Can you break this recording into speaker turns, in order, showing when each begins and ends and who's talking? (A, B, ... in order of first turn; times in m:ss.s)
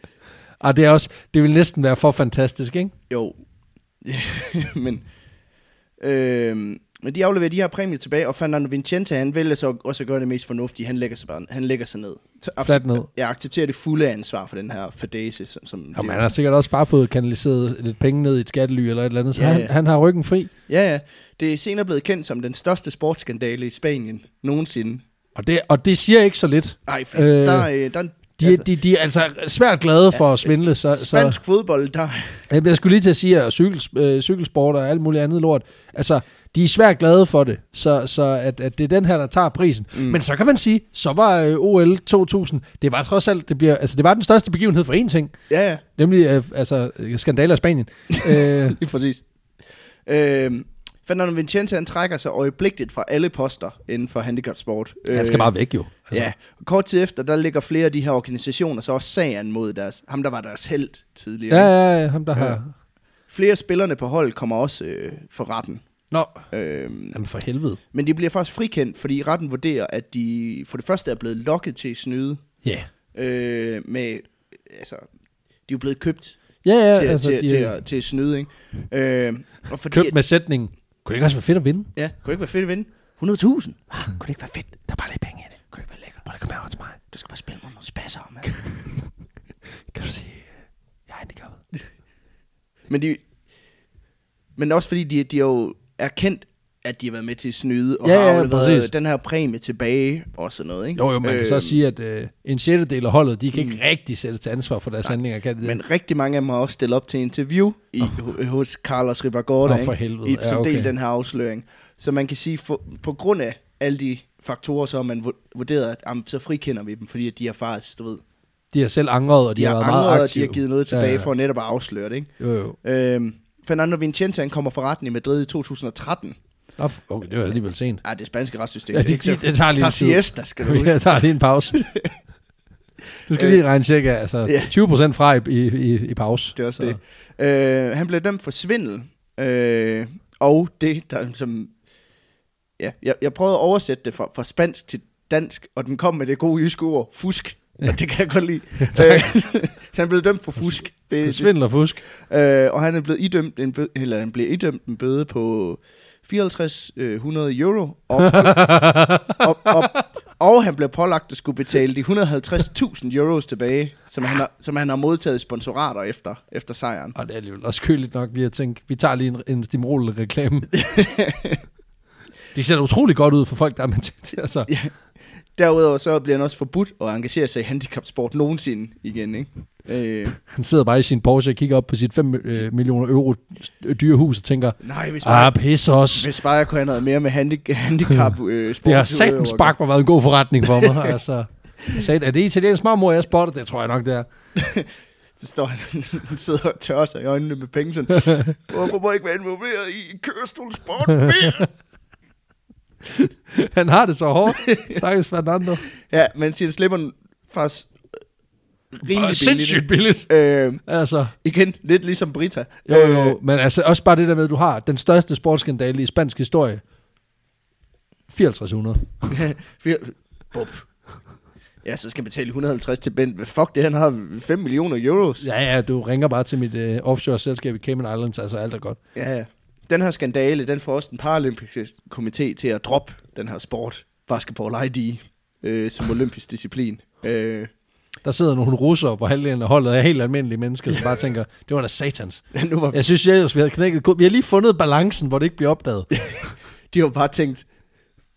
0:00.6-0:02.9 A
0:03.1-0:03.4 B
0:04.0-0:05.0 B
0:06.0-0:16.2 B
0:12.6-0:13.1 A
0:16.0-0:20.5 A
0:19.4-0:19.7 B
0:20.7-0:25.0 B
0:25.4-0:27.7 A
0:26.9-0:28.7 B
0:28.4-0:31.4 A
0:30.1-0:32.4 B
0:32.5-0:45.3 A
0:39.9-0:40.2 B
0:45.5-0:45.8 B
0:46.0-0:48.8 A
0:48.1-0:49.2 B
0:50.1-0:55.5 B
0:55.1-0:56.3 A
0:56.1-1:01.7 B
1:01.5-1:02.7 A
1:03.3-1:05.8 B
1:06.1-1:06.4 A
1:06.5-1:07.2 B
1:07.1-1:07.8 A
1:07.9-1:12.4 B
1:13.1-1:15.1 B
1:15.7-1:16.4 B
1:16.6-1:17.8 A
1:16.9-1:20.1 B
1:19.9-1:21.9 A
1:22.0-1:24.8 B
1:24.8-1:25.7 A
1:25.7-1:26.2 B
1:26.2-1:27.0 A
1:27.1-1:28.5 B
1:28.4-1:29.1 A
1:29.9-1:30.5 A
1:31.1-1:31.6 A
1:32.9-1:33.2 B
1:34.6-1:41.8 B
1:38.0-1:38.9 A
1:41.0-1:45.8 A
1:43.5-1:43.8 B
1:45.0-1:58.2 B
1:49.6-1:50.9 A
1:58.7-2:01.3 A
1:59.6-2:02.3 B
2:02.4-2:02.8 A
2:02.8-2:06.4 B
2:06.8-2:08.0 A
2:08.0-2:12.1 B
2:08.9-2:11.8 A
2:13.3-2:17.0 A
2:13.3-2:13.6 B
2:14.5-2:14.7 B
2:16.6-2:21.7 B
2:22.8-2:38.7 B
2:28.8-2:29.3 A
2:31.2-2:32.0 A
2:38.2-2:40.0 A
2:39.4-2:47.2 B
2:47.2-2:50.8 A
2:50.7-2:51.6 B
2:52.5-2:54.7 A
2:54.7-2:54.9 B
2:55.6-3:00.4 B
3:00.4-3:06.3 A
3:04.8-3:05.6 B
3:06.1-3:09.8 B
3:08.8-3:14.3 A
3:10.7-3:11.2 B
3:14.6-3:21.7 B
3:21.1-3:21.7 A
3:23.1-3:25.9 A
3:24.5-3:25.0 B
3:26.0-3:27.9 B
3:29.0-3:30.8 B
3:29.0-3:30.3 A
3:30.9-3:31.3 A
3:31.4-3:33.4 B
3:32.9-3:36.8 A
3:38.3-3:39.3 A
3:39.3-3:40.8 B
3:41.8-3:45.4 B
3:45.4-3:49.0 A
3:49.1-3:57.7 B
3:58.2-4:06.1 A
4:02.5-4:03.0 B
4:06.1-4:07.7 B